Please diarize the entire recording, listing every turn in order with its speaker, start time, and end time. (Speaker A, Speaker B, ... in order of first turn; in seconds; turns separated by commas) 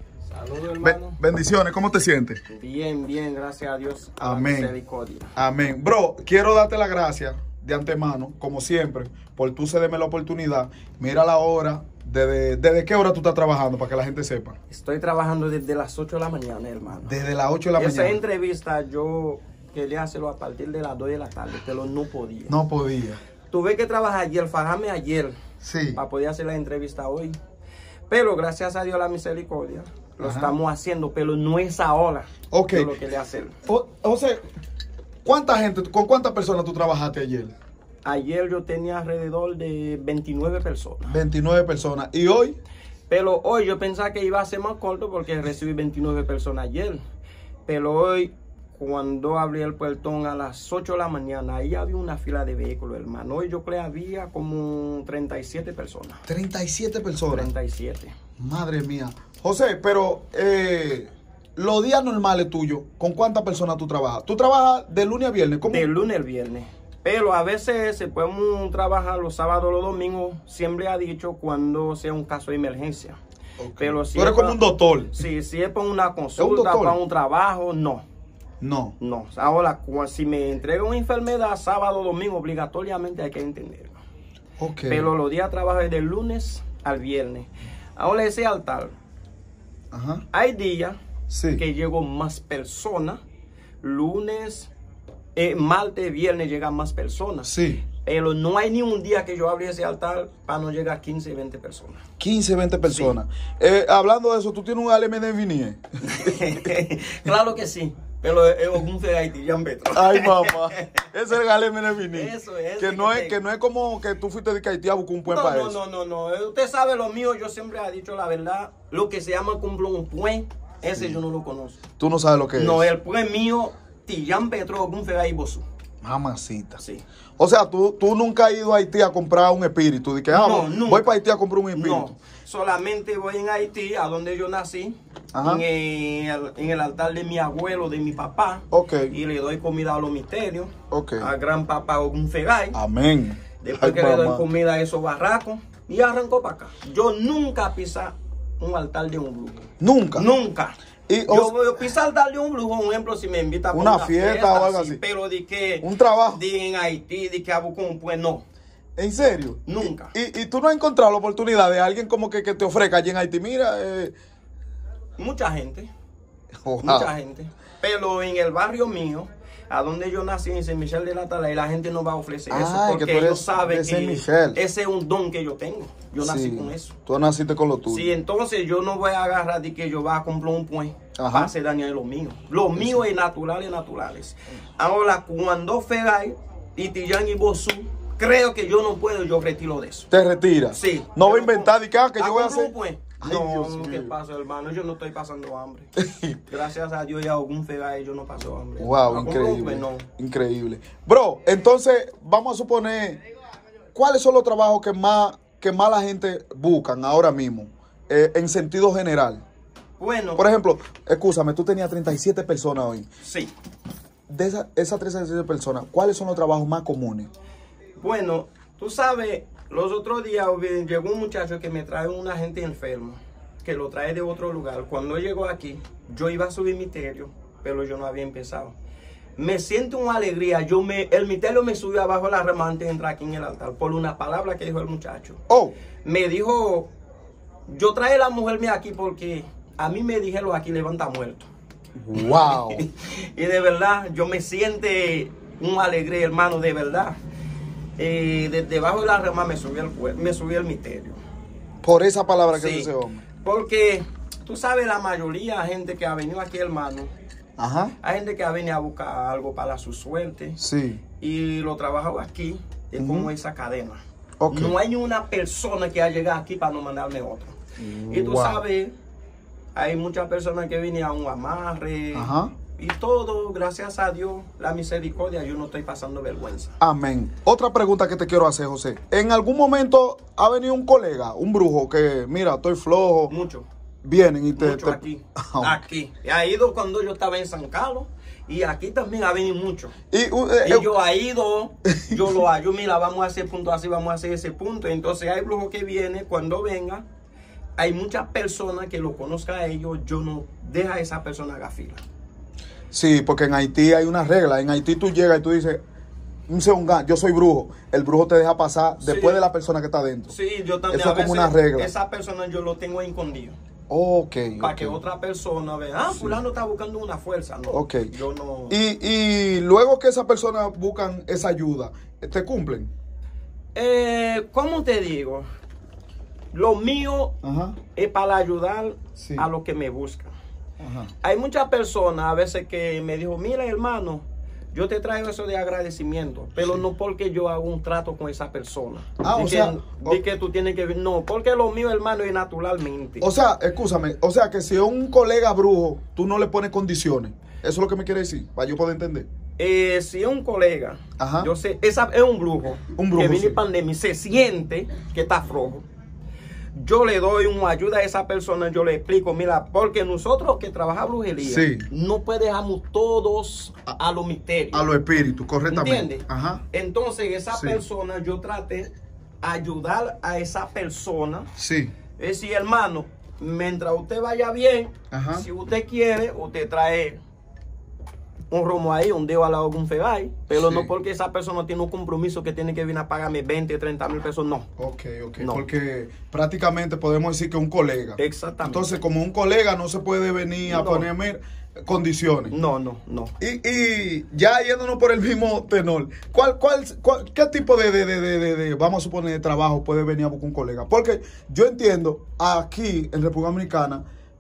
Speaker A: 0.3-1.2, Speaker B: 0.8-2.4, Speaker A: 2.5-5.3, Speaker B: 4.2-4.7, Speaker B: 5.4-14.6, Speaker A: 14.7-17.1, Speaker B: 17.0-18.2, Speaker A: 17.8-22.5, Speaker B: 22.5-23.2, Speaker A: 23.5-25.4, Speaker B: 25.6-26.0, Speaker A: 25.9-27.4, Speaker A: 28.1-33.6, Speaker B: 30.2-30.5, Speaker B: 32.5-32.9, Speaker B: 33.6-34.5, Speaker B: 35.2-37.5, Speaker A: 38.0-41.2, Speaker B: 41.1-42.6, Speaker A: 43.1-47.0, Speaker A: 47.7-56.2, Speaker B: 56.3-57.5, Speaker A: 57.3-58.1, Speaker B: 58.4-65.9, Speaker A: 65.7-73.2, Speaker B: 73.6-75.2, Speaker A: 73.8-74.6, Speaker A: 75.1-78.0, Speaker B: 76.4-77.0, Speaker B: 78.6-79.0, Speaker A: 79.0-84.0, Speaker B: 84.6-85.1, Speaker A: 84.9-88.9, Speaker B: 89.9-90.2, Speaker A: 90.3-91.0, Speaker B: 91.3-91.6, Speaker A: 91.5-93.2, Speaker A: 93.8-94.7, Speaker A: 95.4-97.5, Speaker B: 97.5-97.8, Speaker A: 98.0-102.0, Speaker B: 102.2-106.5, Speaker A: 102.9-103.2, Speaker A: 106.0-111.0, Speaker B: 109.9-115.8, Speaker A: 112.1-113.4, Speaker A: 115.3-121.8, Speaker B: 122.0-122.9, Speaker A: 122.6-125.7, Speaker B: 126.0-126.8, Speaker A: 126.8-127.0, Speaker B: 127.4-132.1, Speaker A: 130.3-131.2, Speaker A: 131.7-142.8, Speaker B: 135.3-135.7, Speaker B: 138.7-139.1, Speaker B: 140.9-141.3, Speaker B: 142.7-144.5, Speaker A: 143.6-149.6, Speaker B: 149.8-150.3, Speaker A: 150.2-158.4, Speaker B: 151.1-151.5, Speaker B: 153.7-155.0, Speaker B: 155.8-156.4, Speaker B: 159.0-164.2, Speaker A: 159.7-160.1, Speaker A: 165.2-165.9, Speaker B: 166.5-167.1, Speaker A: 166.8-176.9, Speaker B: 172.5-174.6, Speaker B: 176.2-178.1, Speaker A: 177.9-190.1, Speaker B: 181.2-181.5, Speaker B: 182.8-183.0, Speaker B: 190.1-194.1, Speaker A: 190.7-195.9, Speaker B: 196.0-196.4, Speaker A: 196.5-200.1, Speaker B: 198.8-203.2, Speaker B: 203.9-209.4, Speaker A: 210.0-210.4, Speaker B: 210.4-213.1, Speaker A: 213.2-213.5, Speaker B: 214.3-217.3, Speaker A: 218.0-228.8, Speaker A: 229.4-235.4, Speaker B: 235.5-235.8, Speaker A: 236.0-236.9, Speaker A: 237.7-241.5, Speaker B: 242.0-242.8, Speaker A: 242.2-247.2, Speaker A: 248.0-251.2, Speaker B: 251.8-253.2, Speaker A: 252.5-252.9, Speaker A: 253.4-257.1, Speaker B: 257.6-257.9, Speaker A: 258.0-260.6, Speaker B: 260.6-261.0, Speaker A: 261.2-268.9, Speaker B: 263.0-263.3, Speaker B: 264.4-264.8, Speaker B: 267.8-268.6, Speaker A: 269.8-276.8, Speaker B: 272.1-272.5, Speaker B: 276.8-283.3, Speaker A: 283.3-283.7, Speaker B: 284.0-285.9, Speaker A: 284.6-290.0, Speaker B: 290.1-290.9, Speaker A: 290.6-297.1, Speaker B: 291.9-292.4, Speaker A: 297.8-302.0, Speaker B: 302.9-305.8, Speaker B: 306.5-310.3, Speaker A: 309.0-309.4, Speaker A: 310.3-313.6, Speaker B: 310.9-311.9, Speaker B: 313.9-315.0, Speaker A: 314.6-318.8, Speaker B: 316.1-316.4, Speaker B: 317.7-318.1, Speaker B: 318.7-322.9, Speaker A: 323.8-325.5, Speaker A: 326.5-327.4, Speaker B: 327.4-327.8, Speaker A: 327.9-330.3, Speaker B: 329.2-329.5, Speaker B: 330.8-331.1, Speaker A: 331.2-343.3, Speaker B: 339.2-340.2, Speaker B: 343.2-349.3, Speaker A: 349.6-355.9, Speaker B: 351.2-351.5, Speaker B: 352.9-353.6, Speaker A: 356.8-364.9, Speaker B: 361.4-361.9, Speaker B: 364.7-366.6, Speaker A: 365.7-371.5, Speaker B: 367.5-367.8, Speaker B: 371.6-371.9, Speaker A: 372.2-377.2, Speaker B: 375.1-375.4, Speaker A: 378.5-384.7, Speaker B: 380.5-380.9, Speaker B: 384.8-392.6, Speaker A: 385.4-385.6, Speaker A: 388.2-388.9, Speaker A: 390.6-391.1, Speaker A: 392.5-393.3, Speaker B: 393.4-404.0